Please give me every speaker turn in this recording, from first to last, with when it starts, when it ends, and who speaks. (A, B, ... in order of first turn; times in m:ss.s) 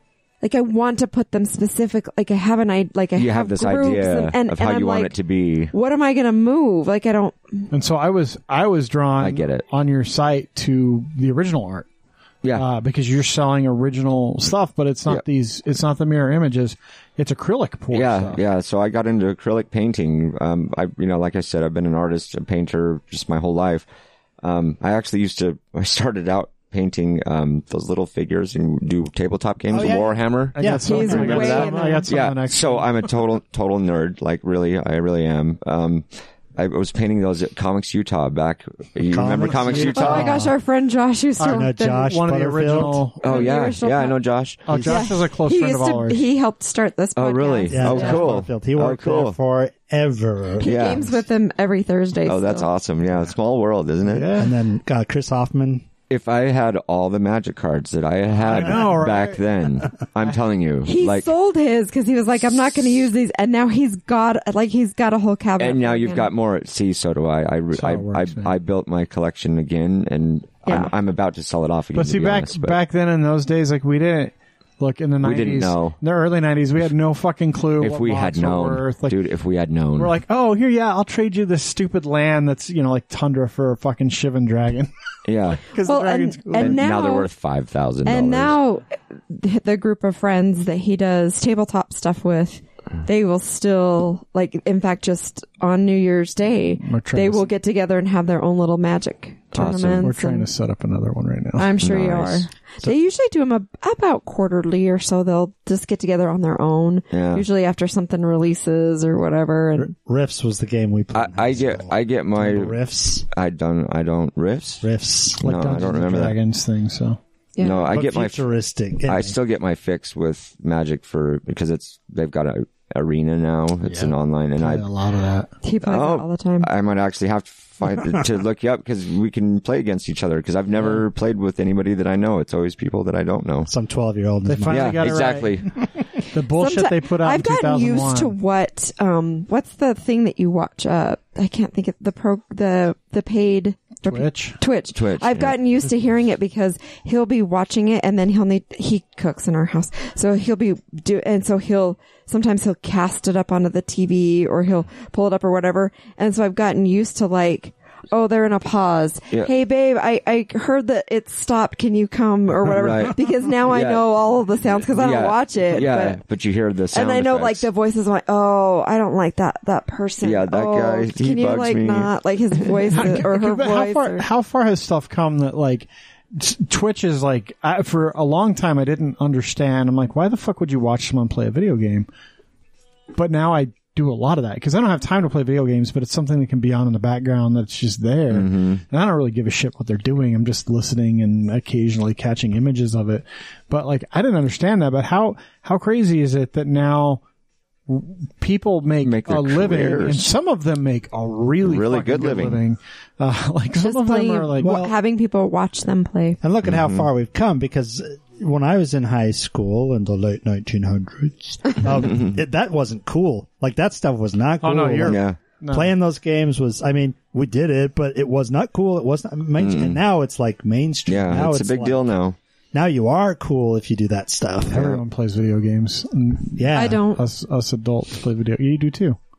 0:00.4-0:05.1 A
0:03.2-0:05.7 B
0:05.7-0:07.7 A
0:07.7-0:11.9 C
0:09.2-0:09.6 B
0:12.4-0:12.7 B
0:12.6-0:18.4 C
0:17.9-0:23.9 B
0:24.4-0:40.5 B
0:29.7-0:31.7 D
0:30.6-0:33.0 C
0:30.8-0:32.1 A
0:39.1-0:40.5 D
0:39.9-0:42.1 A
0:41.4-0:43.2 C
0:41.4-0:43.0 D
0:43.2-0:44.8 B
0:43.2-0:44.2 A
0:44.7-0:46.2 C
0:44.7-0:45.0 D
0:44.8-0:48.3 A
0:47.2-0:49.4 B
0:47.7-0:51.0 D
0:50.6-0:52.7 A
0:50.6-0:51.1 B
0:52.3-0:54.4 B
0:54.0-0:54.5 C
0:54.4-0:55.9 D
0:56.1-1:01.3 B
0:58.4-0:59.4 C
1:00.8-1:06.3 A
1:05.6-1:12.8 B
1:07.7-1:08.5 C
1:10.7-1:10.9 A
1:11.9-1:19.2 C
1:15.2-1:16.0 B
1:17.8-1:20.2 B
1:20.0-1:24.9 C
1:25.3-1:25.7 B
1:25.5-1:26.8 C
1:25.8-1:27.3 A
1:26.6-1:28.6 B
1:28.0-1:40.5 A
1:36.8-1:37.5 C
1:39.5-1:40.1 B
1:40.0-1:41.7 C
1:41.6-1:49.9 A
1:41.8-1:42.5 B
1:47.1-1:47.4 B
1:49.8-1:53.3 D
1:51.1-1:52.8 B
1:53.3-1:54.9 B
1:54.8-1:55.4 D
1:55.4-1:56.4 B
1:55.4-1:57.2 C
1:57.6-1:57.9 A
1:57.6-1:58.4 B
1:57.9-1:59.4 D
1:59.1-2:04.9 B
2:03.8-2:05.5 C
2:05.6-2:06.7 A
2:05.8-2:13.7 B
2:13.7-2:15.2 D
2:14.5-2:15.7 C
2:14.7-2:15.8 B
2:16.3-2:18.4 C
2:16.5-2:46.2 A
2:24.0-2:24.6 C
2:24.9-2:25.6 B
2:42.6-2:44.1 B
2:44.8-2:47.7 B
2:46.9-2:54.2 A
2:50.2-2:52.1 B
2:52.9-3:02.1 C
3:03.2-3:17.2 C
3:08.3-3:08.8 B
3:17.9-3:24.8 C
3:19.0-3:20.3 B
3:21.6-3:22.6 B
3:23.8-3:26.4 A
3:24.6-3:24.9 D
3:26.4-3:42.1 D
3:26.6-3:27.1 B
3:34.6-3:35.9 C
3:35.0-3:35.4 B
3:39.6-3:40.0 B
3:41.1-3:42.4 B
3:42.7-3:45.0 D
3:44.7-3:49.2 C
3:46.6-3:47.0 D
3:46.7-3:47.2 A